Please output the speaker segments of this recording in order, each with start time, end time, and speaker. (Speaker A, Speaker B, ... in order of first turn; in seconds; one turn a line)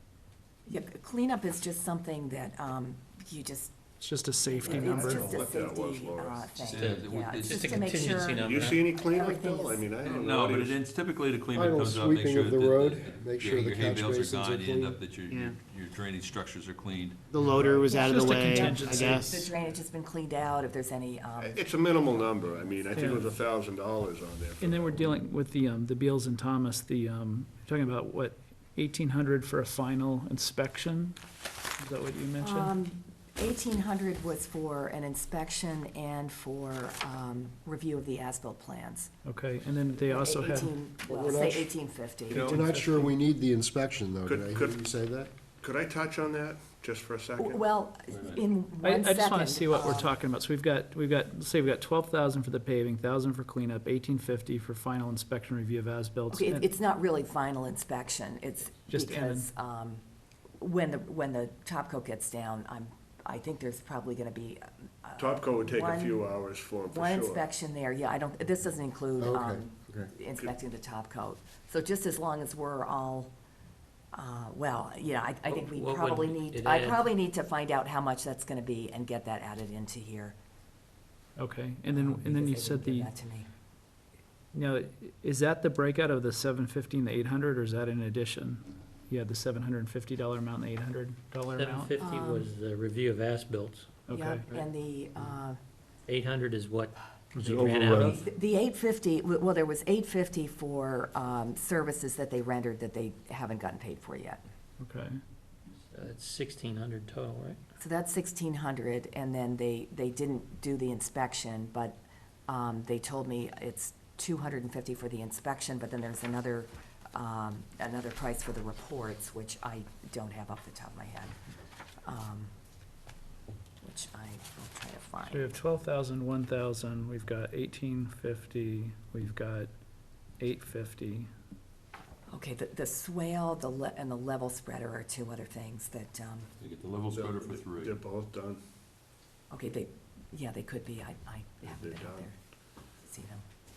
Speaker A: 0.7-3.7
Speaker B: 4.0-5.5
Speaker A: 4.3-9.8
Speaker C: 4.6-6.8
Speaker D: 6.6-8.0
Speaker E: 7.5-8.8
Speaker C: 8.4-10.8
Speaker D: 10.0-17.2
Speaker F: 11.5-15.0
Speaker G: 15.3-15.6
Speaker G: 17.3-19.5
Speaker A: 17.8-21.8
Speaker B: 17.9-19.4
Speaker C: 21.4-25.1
Speaker B: 22.9-23.3
Speaker B: 24.6-31.2
Speaker B: 31.8-32.7
Speaker A: 32.4-39.1
Speaker B: 39.2-40.9
Speaker A: 40.0-42.5
Speaker F: 41.0-45.3
Speaker D: 42.3-42.6
Speaker B: 42.3-43.1
Speaker C: 44.2-44.8
Speaker C: 45.6-47.6
Speaker A: 47.4-50.1
Speaker D: 48.1-48.4
Speaker B: 48.8-56.8
Speaker A: 56.3-60.0
Speaker B: 58.9-59.5
Speaker A: 60.6-66.2
Speaker C: 65.2-67.4
Speaker A: 66.9-73.3
Speaker F: 69.2-69.6
Speaker A: 74.1-80.3
Speaker E: 75.5-77.1
Speaker B: 81.4-83.1
Speaker A: 81.9-83.5
Speaker B: 84.5-92.0
Speaker E: 91.5-94.0
Speaker A: 92.0-92.5
Speaker B: 94.1-94.5
Speaker A: 94.1-95.6
Speaker E: 96.1-98.2
Speaker F: 97.3-98.1
Speaker A: 97.9-104.4
Speaker B: 104.8-105.2
Speaker E: 105.9-107.6
Speaker A: 107.8-121.3
Speaker A: 122.0-122.5
Speaker A: 123.8-125.5
Speaker B: 125.3-129.7
Speaker B: 130.4-131.3
Speaker A: 132.3-136.5
Speaker D: 136.6-138.0
Speaker C: 137.1-138.6
Speaker A: 139.5-142.3
Speaker C: 141.6-142.3
Speaker A: 143.0-143.4